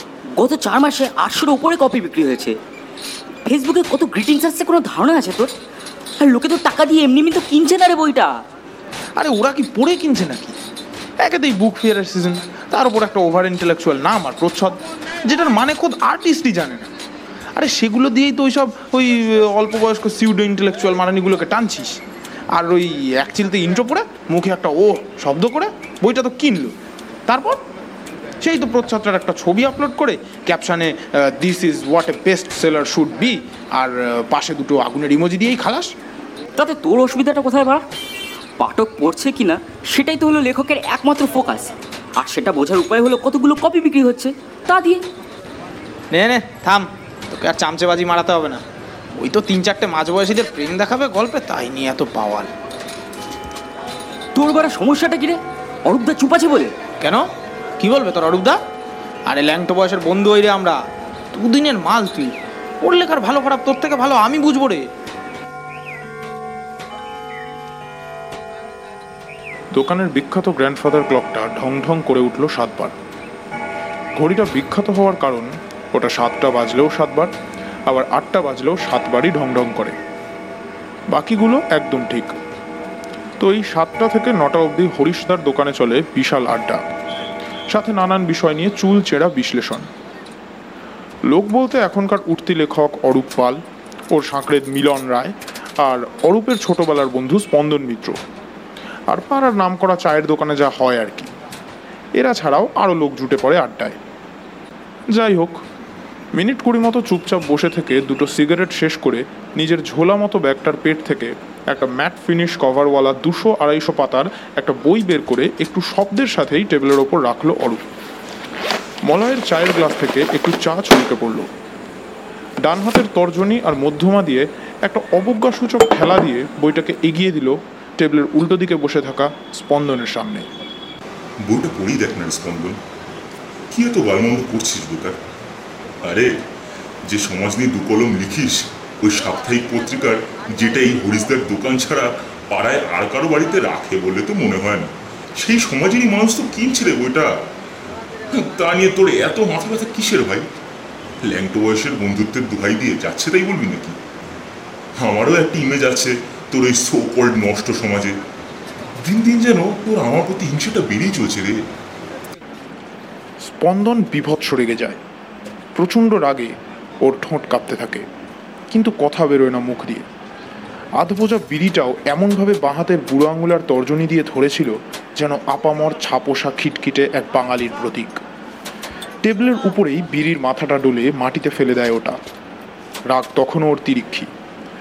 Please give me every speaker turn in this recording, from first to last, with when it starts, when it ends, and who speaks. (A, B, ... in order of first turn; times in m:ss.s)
0:00.4-0:02.6 A
0:03.4-0:05.5 A
0:06.2-0:08.3 A
0:09.2-0:10.5 B
0:11.2-0:16.6 B
0:14.2-0:14.6 C
0:16.6-0:16.8 C
0:17.6-0:22.0 B
0:22.6-0:26.7 B
0:27.3-0:27.6 B
0:28.4-0:28.8 B
0:28.8-0:30.8 C
0:29.4-0:31.8 B
0:31.8-0:33.3 C
0:32.4-0:35.9 B
0:34.3-0:35.1 C
0:36.6-0:37.8 A
0:38.6-0:45.0 A
0:46.1-0:48.6 B
0:49.2-0:52.5 B
0:54.3-0:56.7 A
0:57.0-0:57.2 B
0:57.8-0:58.6 B
0:59.3-1:00.8 B
1:01.3-1:04.8 B
1:09.7-1:12.9 C
1:14.2-1:17.3 C
1:17.9-1:20.0 C
1:21.1-1:22.3 C
1:23.4-1:26.8 C
1:27.7-1:29.8 C
1:31.3-1:33.6 C
1:34.1-1:38.2 C
1:39.1-1:41.3 C
1:42.2-1:44.0 C
1:45.1-1:45.6 C
1:46.3-1:57.8 C
1:59.0-2:01.5 C
2:02.6-2:10.5 C
2:11.4-2:12.8 D
2:13.7-2:15.2 D
2:16.0-2:16.4 D
2:17.1-2:27.3 D
2:28.3-2:30.5 D
2:31.2-2:34.0 D
2:35.0-2:38.1 D
2:39.0-2:41.6 D
2:43.4-2:45.0 C
2:45.8-2:46.5 C
2:47.0-2:48.0 C
2:48.7-2:50.0 C
2:51.0-2:58.2 C
2:59.2-3:02.2 C
3:03.1-3:04.3 C